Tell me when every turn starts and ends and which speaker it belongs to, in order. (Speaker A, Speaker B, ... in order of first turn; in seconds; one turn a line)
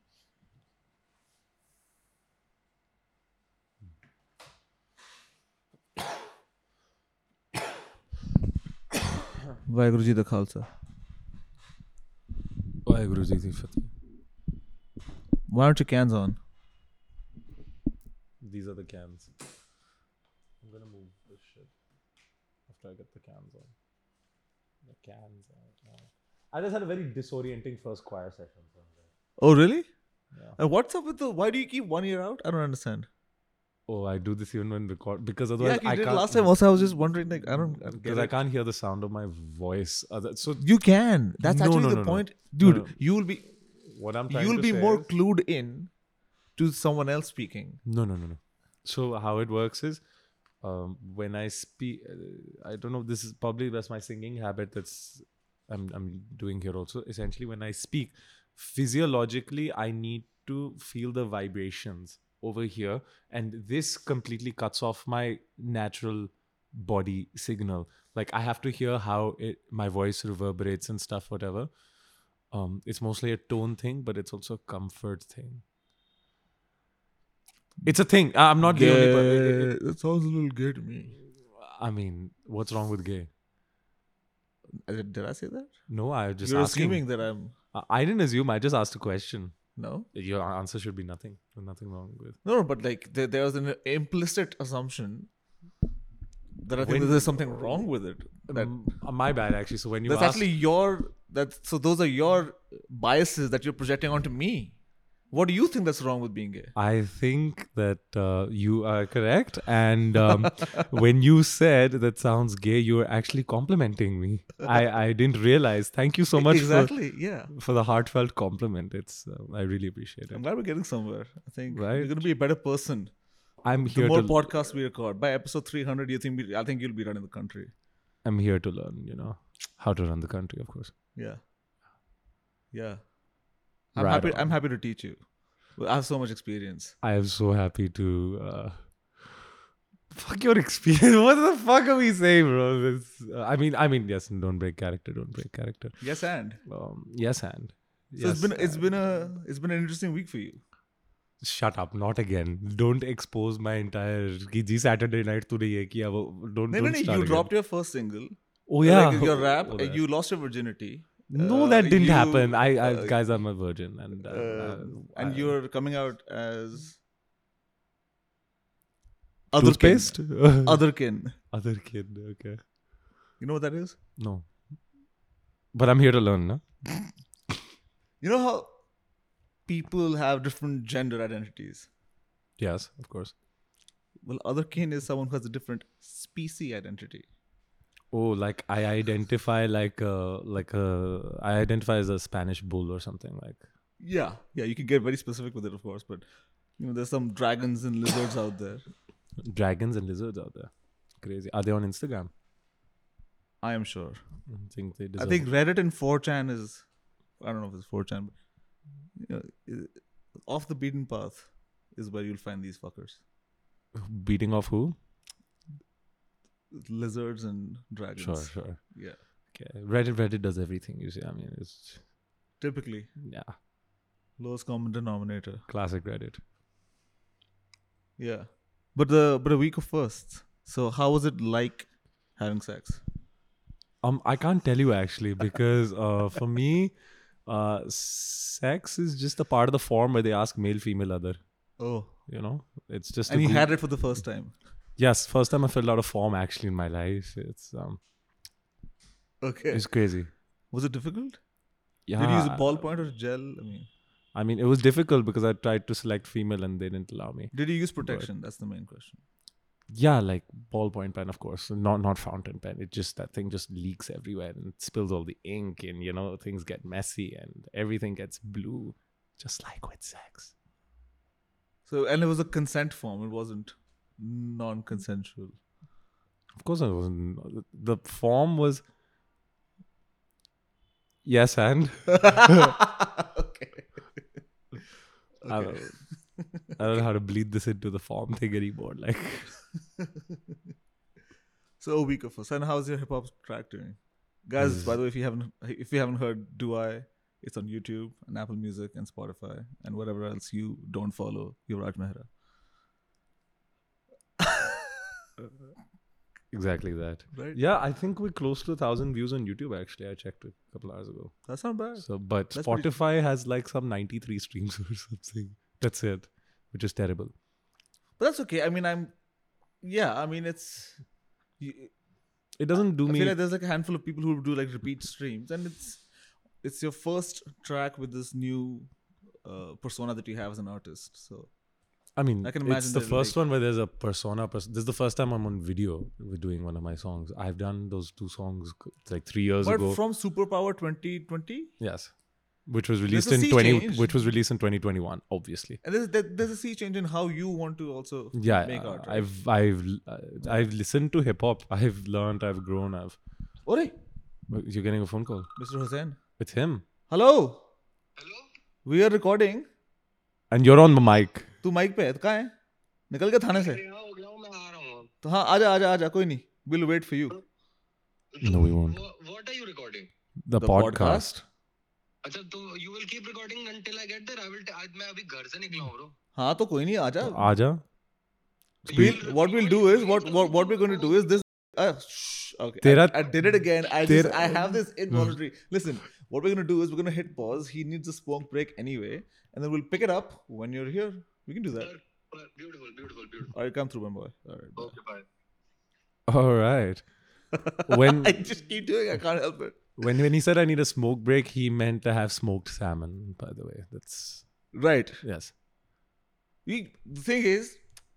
Speaker A: 9.7-10.7
Speaker B: 12.8-13.9
Speaker A: 15.5-16.4
Speaker B: 18.4-19.3
Speaker B: 20.6-21.7
Speaker B: 22.7-23.7
Speaker B: 24.8-29.1
Speaker A: 29.4-29.9
Speaker B: 30.3-30.6
Speaker A: 30.6-33.1
Speaker B: 33.9-36.5
Speaker A: 35.6-38.3
Speaker B: 37.8-40.6
Speaker A: 40.6-43.5
Speaker B: 41.4-43.0
Speaker B: 43.6-45.1
Speaker A: 44.3-45.9
Speaker A: 46.5-47.8
Speaker B: 47.8-50.0
Speaker B: 50.6-71.7
Speaker B: 72.5-75.6
Speaker B: 77.8-79.7
Speaker A: 78.6-81.1
Speaker B: 81.5-83.3
Speaker A: 84.7-85.7
Speaker B: 85.9-87.0
Speaker A: 86.4-87.5
Speaker B: 87.7-89.5
Speaker A: 89.8-90.1
Speaker B: 90.1-92.4
Speaker A: 92.4-95.3
Speaker A: 96.6-98.7
Speaker B: 96.8-97.7
Speaker B: 98.5-100.5
Speaker A: 100.0-104.8
Speaker A: 105.3-106.7
Speaker B: 106.7-116.9
Speaker A: 116.3-117.5
Speaker B: 117.5-120.4
Speaker A: 120.3-123.1
Speaker B: 121.7-122.2
Speaker B: 123.6-124.4
Speaker A: 123.8-127.7
Speaker B: 128.2-130.9
Speaker A: 132.7-133.1
Speaker A: 133.9-136.9
Speaker B: 133.9-134.5
Speaker B: 137.0-139.4
Speaker B: 140.1-146.0
Speaker A: 146.0-146.6
Speaker B: 146.6-148.9
Speaker A: 148.2-150.6
Speaker B: 151.4-157.5
Speaker A: 156.7-163.1
Speaker B: 158.7-160.0
Speaker B: 161.3-165.5
Speaker A: 164.2-167.0
Speaker A: 169.5-171.3
Speaker B: 169.6-170.8
Speaker B: 171.5-172.6
Speaker A: 173.4-174.0
Speaker B: 174.2-174.7
Speaker B: 175.7-176.6
Speaker A: 178.2-178.8
Speaker A: 179.7-181.9
Speaker B: 182.6-183.3
Speaker A: 184.2-187.2
Speaker B: 188.1-193.6
Speaker A: 194.0-196.3
Speaker A: 196.8-198.8
Speaker B: 199.4-202.3
Speaker A: 203.6-204.2
Speaker B: 204.5-205.5
Speaker A: 205.2-206.8
Speaker A: 207.4-208.3
Speaker A: 209.2-213.2
Speaker B: 213.9-215.0
Speaker A: 216.7-219.2
Speaker B: 218.2-218.8
Speaker B: 219.5-222.1
Speaker A: 222.6-223.1
Speaker B: 223.2-223.6
Speaker A: 224.4-225.6
Speaker B: 225.7-226.4
Speaker A: 228.2-233.0
Speaker B: 234.0-236.9
Speaker B: 237.4-241.4
Speaker A: 241.8-242.2
Speaker B: 242.3-243.7
Speaker A: 243.3-244.5
Speaker B: 245.0-248.0
Speaker A: 249.4-249.9
Speaker B: 249.7-250.3
Speaker A: 250.7-251.4
Speaker B: 252.1-252.8
Speaker A: 252.2-253.9
Speaker B: 254.3-258.3
Speaker A: 257.5-259.2
Speaker B: 259.9-270.5
Speaker A: 271.9-275.6
Speaker B: 276.6-278.8
Speaker B: 281.2-282.8
Speaker A: 282.1-284.2
Speaker A: 285.4-287.0
Speaker B: 285.4-286.0
Speaker B: 286.7-289.6
Speaker A: 290.0-290.6
Speaker A: 291.8-302.3
Speaker B: 294.6-294.9
Speaker A: 304.4-305.0
Speaker B: 306.5-311.4
Speaker A: 307.3-307.6
Speaker A: 311.5-312.9
Speaker B: 311.9-317.3
Speaker A: 318.2-319.1
Speaker A: 319.8-321.0
Speaker A: 321.6-321.9
Speaker B: 322.6-323.4
Speaker A: 323.0-326.0
Speaker A: 326.6-328.9
Speaker A: 329.4-331.5
Speaker B: 332.1-340.0
Speaker A: 332.4-333.4
Speaker A: 339.6-341.7
Speaker B: 341.8-342.1
Speaker B: 342.6-345.8
Speaker A: 343.1-344.2
Speaker A: 345.8-349.3
Speaker B: 348.3-353.2
Speaker A: 353.6-353.9
Speaker B: 354.5-355.5
Speaker A: 355.6-356.2
Speaker B: 356.4-356.8
Speaker A: 357.1-357.7
Speaker C: 358.2-358.5
Speaker A: 358.8-359.7
Speaker B: 360.5-361.5
Speaker A: 361.6-362.5
Speaker A: 363.1-363.8
Speaker C: 363.5-365.1
Speaker A: 365.2-367.4
Speaker C: 368.3-370.1
Speaker B: 368.4-369.0
Speaker B: 370.4-371.4
Speaker A: 370.6-371.4
Speaker C: 372.2-376.1
Speaker A: 376.3-377.5
Speaker B: 377.2-377.8
Speaker B: 378.8-379.2
Speaker C: 378.9-381.3
Speaker A: 378.9-391.9
Speaker B: 382.8-385.3
Speaker C: 391.8-393.5
Speaker A: 393.5-394.9
Speaker C: 394.8-395.2
Speaker B: 396.3-397.1
Speaker A: 397.5-400.1
Speaker B: 397.8-398.5
Speaker B: 400.0-404.6
Speaker A: 404.7-405.2
Speaker B: 405.2-405.5
Speaker A: 406.6-407.8